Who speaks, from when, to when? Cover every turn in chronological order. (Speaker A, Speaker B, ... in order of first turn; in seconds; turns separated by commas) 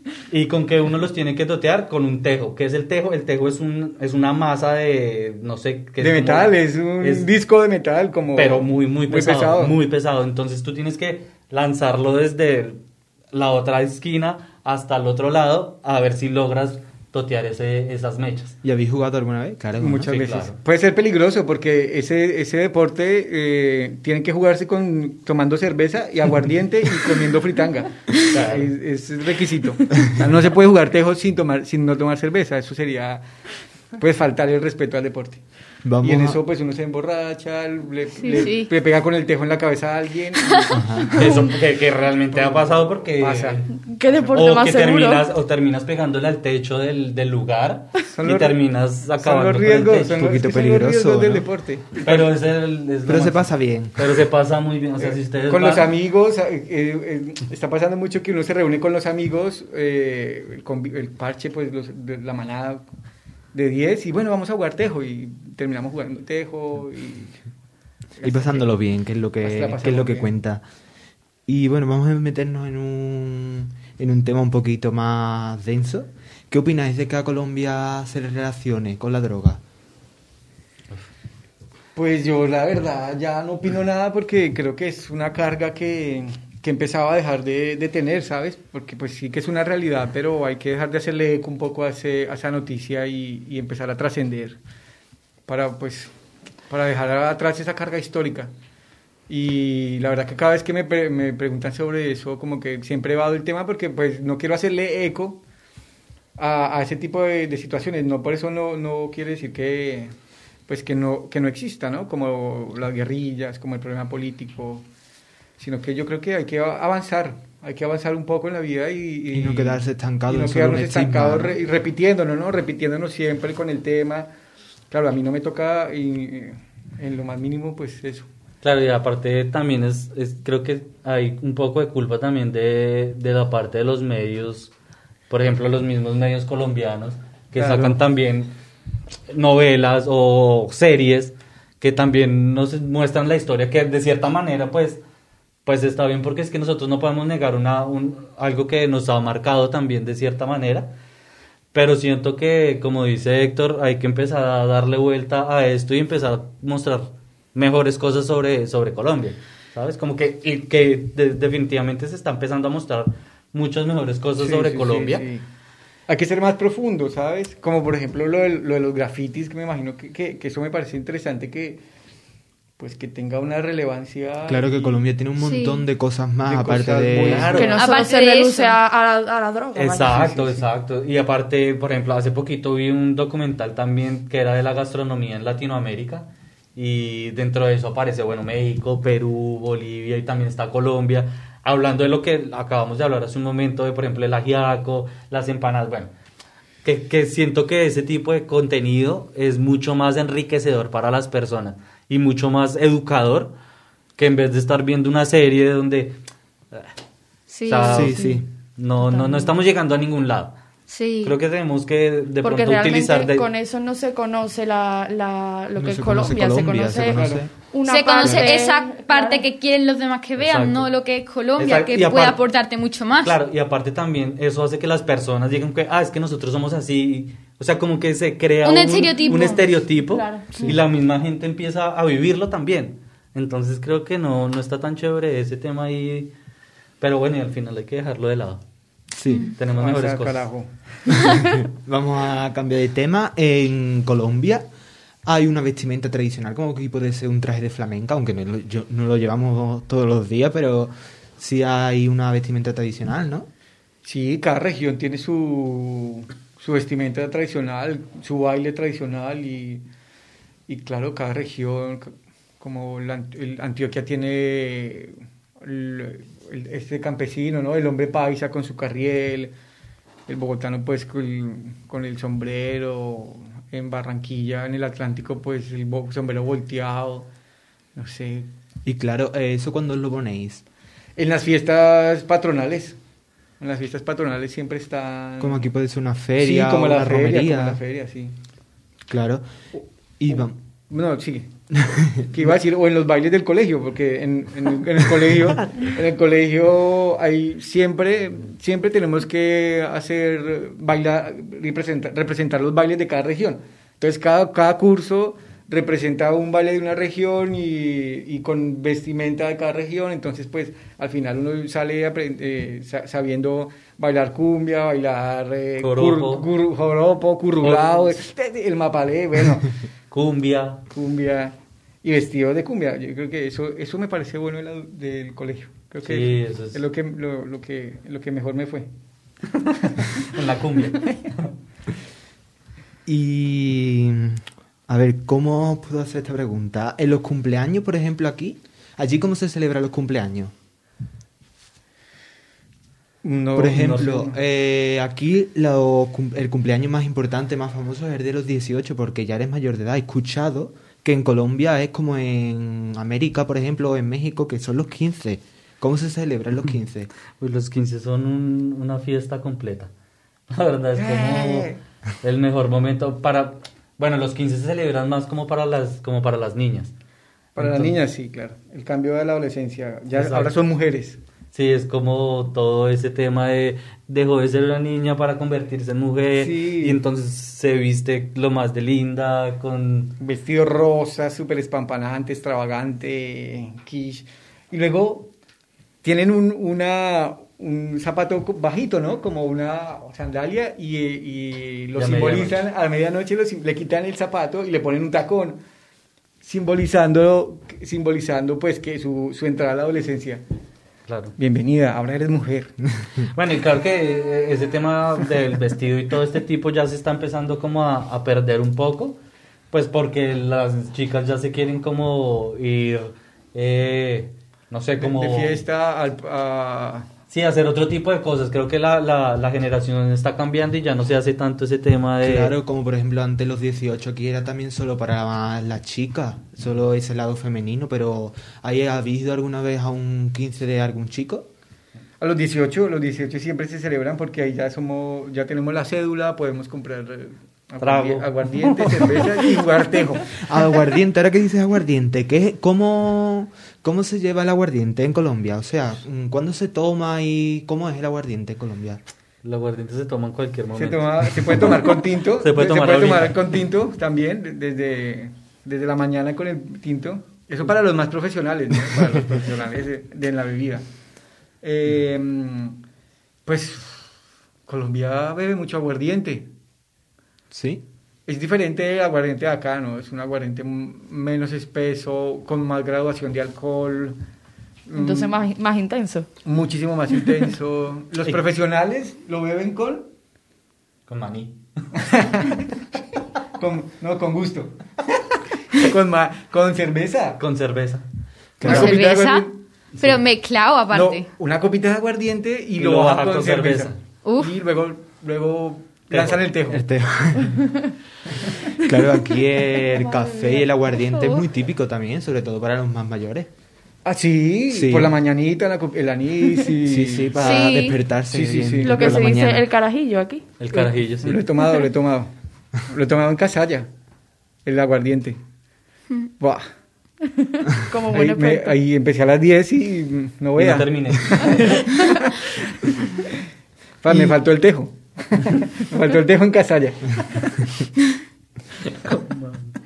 Speaker A: 0.3-7.3, Speaker B: 6.0-9.8, Speaker A: 8.3-12.8, Speaker A: 13.3-18.6, Speaker C: 18.6-20.1, Speaker B: 19.8-33.2, Speaker A: 20.0-20.6, Speaker A: 28.3-28.7, Speaker B: 34.0-35.4, Speaker C: 35.9-36.4, Speaker B: 36.0-40.8, Speaker D: 38.2-38.7, Speaker D: 40.4-40.7, Speaker C: 40.7-41.5, Speaker A: 41.1-43.7, Speaker B: 42.3-44.4, Speaker E: 43.8-45.3, Speaker A: 44.3-50.5, Speaker B: 48.1-48.6, Speaker B: 49.2-52.4, Speaker C: 50.2-51.5, Speaker A: 52.0-55.9, Speaker C: 53.1-54.2, Speaker B: 55.0-62.8, Speaker B: 63.5-67.4, Speaker B: 68.2-68.7, Speaker C: 68.2-70.6, Speaker B: 69.4-70.3, Speaker C: 71.5-79.6, Speaker B: 82.0-94.6, Speaker B: 95.5-96.1, Speaker B: 96.7-98.5, Speaker B: 99.3-105.4, Speaker B: 106.4-110.1, Speaker B: 110.7-114.8, Speaker B: 115.6-124.3, Speaker C: 119.3-121.6, Speaker B: 124.9-128.3, Speaker A: 128.6-134.7, Speaker A: 135.3-138.5, Speaker B: 137.6-138.0, Speaker A: 139.3-145.0, Speaker A: 145.7-150.9, Speaker A: 151.7-165.3, Speaker B: 164.4-165.4, Speaker B: 166.1-171.8, Speaker B: 172.8-175.0, Speaker C: 174.5-177.7, Speaker D: 175.4-175.8, Speaker B: 176.5-177.8, Speaker A: 177.2-177.9, Speaker E: 177.5-180.2, Speaker D: 177.8-178.8, Speaker A: 179.8-196.1, Speaker B: 180.1-180.7, Speaker A: 196.8-203.5, Speaker A: 204.2-206.2, Speaker D: 207.5-208.1, Speaker A: 207.7-210.6, Speaker C: 207.9-208.5, Speaker E: 207.9-208.4, Speaker E: 209.0-209.5, Speaker D: 210.9-211.3, Speaker A: 211.2-213.5, Speaker E: 212.4-219.4, Speaker C: 215.8-217.5, Speaker B: 217.1-217.4, Speaker D: 217.8-223.4, Speaker C: 218.2-218.5, Speaker A: 220.4-220.9, Speaker A: 221.6-222.4, Speaker A: 223.2-236.3, Speaker D: 228.6-229.6, Speaker E: 230.1-230.7, Speaker A: 237.0-238.6, Speaker C: 239.1-239.5, Speaker D: 239.3-239.5, Speaker A: 239.6-240.5, Speaker B: 239.7-241.3, Speaker C: 241.1-244.7, Speaker C: 245.2-253.5, Speaker B: 254.0-259.9, Speaker B: 260.7-269.5, Speaker B: 270.3-277.3, Speaker B: 277.9-278.5, Speaker C: 278.9-280.6, Speaker B: 281.2-283.0, Speaker B: 283.6-285.7, Speaker C: 285.4-287.8, Speaker B: 286.4-288.4, Speaker C: 289.1-289.5, Speaker B: 289.8-291.5, Speaker C: 290.2-290.6, Speaker C: 291.7-292.6, Speaker B: 292.3-319.8, Speaker A: 315.8-316.5, Speaker A: 317.6-318.1, Speaker A: 320.1-320.9, Speaker B: 320.9-328.9, Speaker A: 326.0-326.8, Speaker A: 330.2-331.2, Speaker C: 333.1-340.5, Speaker B: 343.2-344.4, Speaker C: 343.6-357.1, Speaker A: 357.4-359.9, Speaker A: 360.5-361.7, Speaker B: 361.0-361.8, Speaker A: 362.2-366.9, Speaker B: 367.6-371.2, Speaker A: 367.6-367.9, Speaker A: 370.1-370.6, Speaker A: 371.5-380.2, Speaker B: 376.4-377.0, Speaker B: 380.2-385.3, Speaker B: 386.0-395.6, Speaker A: 392.0-392.6, Speaker B: 396.4-400.4, Speaker A: 401.1-401.4, Speaker B: 401.4-402.8, Speaker A: 403.3-409.2, Speaker A: 409.7-415.6, Speaker B: 415.0-417.1, Speaker A: 417.3-422.5, Speaker C: 422.2-431.5, Speaker B: 432.2-440.4, Speaker A: 437.8-439.5, Speaker C: 440.4-449.0, Speaker A: 449.4-453.6, Speaker B: 450.8-460.8, Speaker B: 461.6-462.8, Speaker B: 463.5-464.1, Speaker B: 464.7-466.5, Speaker C: 467.5-467.8, Speaker B: 468.3-474.2, Speaker B: 474.9-475.4, Speaker E: 474.9-476.3, Speaker B: 476.4-480.1, Speaker A: 481.1-481.6, Speaker B: 482.0-482.8, Speaker B: 483.6-487.4, Speaker A: 487.4-488.1, Speaker C: 488.6-489.1, Speaker B: 488.6-489.6, Speaker D: 488.6-491.3, Speaker B: 490.9-496.9, Speaker A: 492.8-494.0, Speaker D: 494.2-494.5, Speaker A: 496.1-496.5, Speaker C: 496.7-497.6, Speaker C: 498.8-503.5, Speaker D: 499.9-501.4, Speaker B: 504.1-507.6, Speaker C: 504.7-505.2, Speaker C: 506.8-509.7, Speaker D: 507.4-508.0, Speaker B: 508.3-509.3, Speaker E: 508.8-510.5, Speaker A: 510.6-511.4, Speaker B: 511.2-512.3, Speaker B: 512.9-513.9, Speaker B: 514.6-515.4, Speaker B: 516.4-516.7, Speaker E: 517.3-518.8, Speaker B: 518.1-523.3, Speaker A: 520.6-521.8, Speaker B: 524.0-527.7, Speaker C: 524.1-524.4, Speaker A: 529.1-529.6